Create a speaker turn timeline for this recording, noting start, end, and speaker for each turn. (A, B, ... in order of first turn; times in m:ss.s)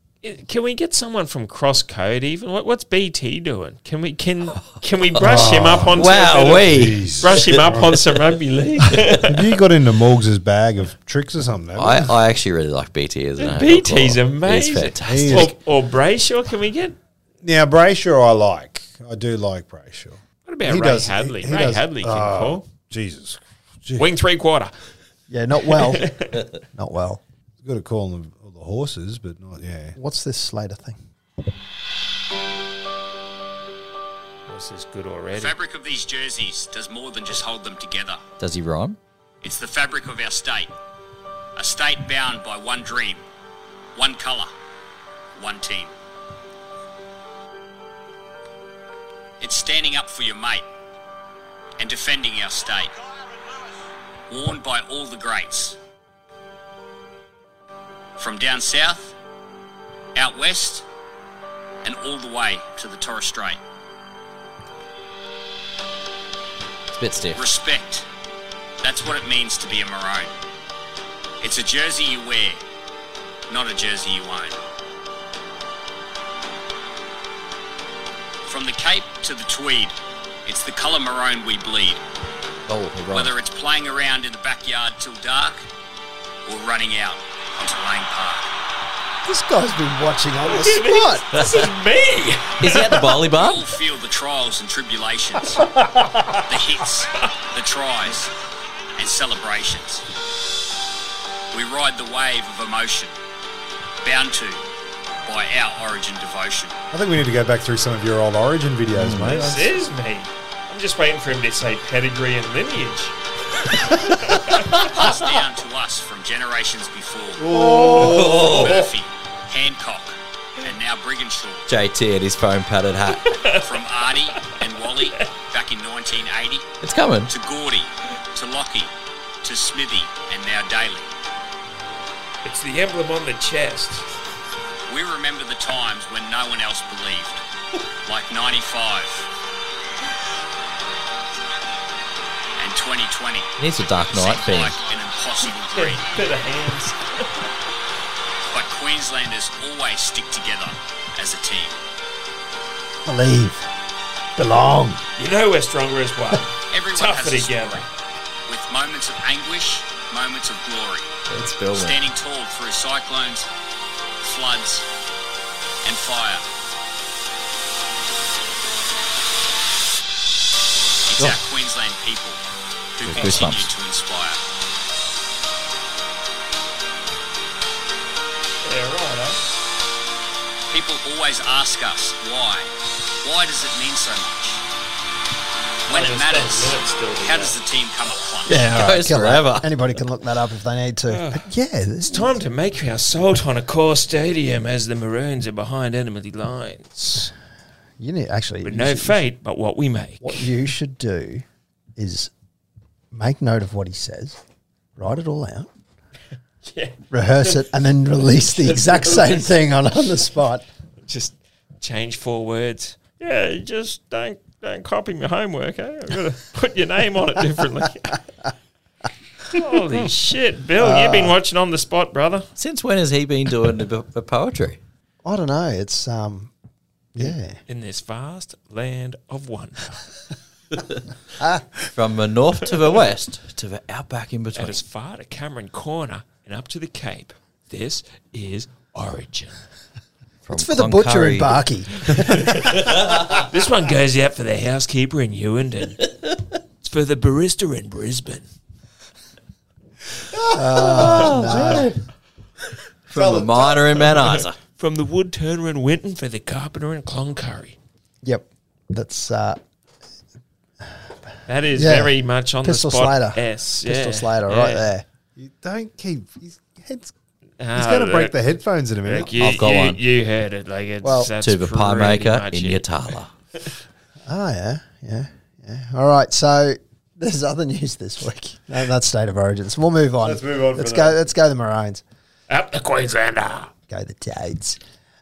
0:00.2-0:09.6 A
0:05.2-0:07.6 B
0:05.2-0:08.0 C
0:09.2-0:12.2 C
0:11.7-0:15.5 B
0:13.4-0:17.0 A
0:15.0-0:15.5 C
0:17.4-0:24.1 C
0:20.4-0:22.6 A
0:24.0-0:24.7 A
0:25.3-0:27.2 D
0:25.6-0:26.4 A
0:27.6-0:30.0 C
0:30.0-0:31.0 D
0:34.5-0:35.6 A
0:35.3-0:38.2 E
0:38.4-0:39.0 B
0:39.4-0:40.7 E
0:41.6-0:43.2 E
0:43.9-0:44.5 E
0:45.4-0:45.9 E
0:49.4-0:50.6 E
0:51.8-0:53.0 E
0:54.3-0:55.8 E
0:58.2-0:59.2 E
1:00.1-1:00.8 E
1:01.8-1:03.6 E
1:06.9-1:07.4 B
1:07.3-1:08.1 E
1:08.8-1:10.3 E
1:11.4-1:12.6 E
1:13.5-1:14.6 E
1:18.5-1:22.0 E
1:22.7-1:23.3 B
1:23.1-1:25.6 E
1:26.4-1:28.5 E
1:29.2-1:31.2 D
1:30.4-1:33.0 A
1:31.4-1:31.6 B
1:32.6-1:33.7 B
1:33.3-1:35.6 E
1:36.0-1:36.4 A
1:36.4-1:38.3 E
1:39.0-1:40.0 E
1:41.5-1:43.1 E
1:44.0-1:44.6 E
1:45.2-1:46.8 E
1:46.9-1:49.7 C
1:48.9-1:49.4 B
1:49.2-1:53.1 A
1:53.7-1:54.8 A
1:54.6-1:57.4 E
1:57.4-1:58.8 C
1:57.5-1:58.9 B
1:58.3-2:01.7 E
2:01.7-2:03.4 B
2:03.2-2:03.7 A
2:03.5-2:06.6 E
2:06.8-2:07.3 B
2:07.3-2:08.9 E
2:09.4-2:11.1 E
2:12.4-2:14.1 A
2:14.9-2:17.4 E
2:18.0-2:19.3 E
2:22.6-2:23.5 E
2:23.6-2:24.8 B
2:24.1-2:26.2 E
2:25.6-2:27.3 A
2:28.5-2:31.8 E
2:33.0-2:33.7 D
2:34.4-2:35.0 D
2:35.2-2:37.8 A
2:36.7-2:37.9 E
2:38.5-2:41.1 E
2:41.3-2:42.0 B
2:41.7-2:43.5 E
2:44.2-2:44.9 E
2:45.8-2:46.4 E
2:51.1-2:52.4 E
2:52.9-2:54.5 E
2:53.0-2:53.7 B
2:58.6-2:59.4 A
3:00.7-3:04.6 E
3:05.9-3:08.8 E
3:05.9-3:07.6 A
3:08.4-3:12.4 D
3:08.7-3:09.7 B
3:11.1-3:11.4 A
3:12.0-3:17.3 A
3:18.0-3:19.2 D
3:18.6-3:20.5 A
3:20.2-3:21.4 D
3:22.0-3:22.3 D
3:23.1-3:24.4 D
3:25.0-3:25.7 D
3:26.6-3:27.6 A
3:27.1-3:30.6 D
3:28.4-3:29.4 A
3:31.0-3:38.2 A
3:39.5-3:42.5 A
3:40.8-3:41.4 D
3:42.6-3:44.8 B
3:45.2-3:46.5 D
3:47.1-3:47.6 D
3:47.7-3:50.0 A
3:51.9-3:54.8 B
3:54.5-3:59.6 A
4:00.4-4:01.6 B
4:00.5-4:02.9 D
4:02.0-4:06.1 A
4:06.8-4:08.4 A
4:10.3-4:11.8 C
4:10.5-4:11.9 D
4:10.7-4:12.0 B
4:13.1-4:14.6 B
4:13.1-4:14.2 C
4:14.8-4:17.8 A
4:18.2-4:19.6 D
4:21.5-4:24.8 A
4:21.7-4:25.0 D
4:25.4-4:27.1 C
4:27.6-4:28.3 A
4:27.7-4:29.4 C
4:29.0-4:32.8 A
4:29.4-4:30.0 B
4:31.0-4:31.3 D
4:31.4-4:33.3 B
4:34.2-4:42.0 D
4:40.2-4:41.2 C
4:42.5-4:43.7 A
4:43.9-4:44.8 D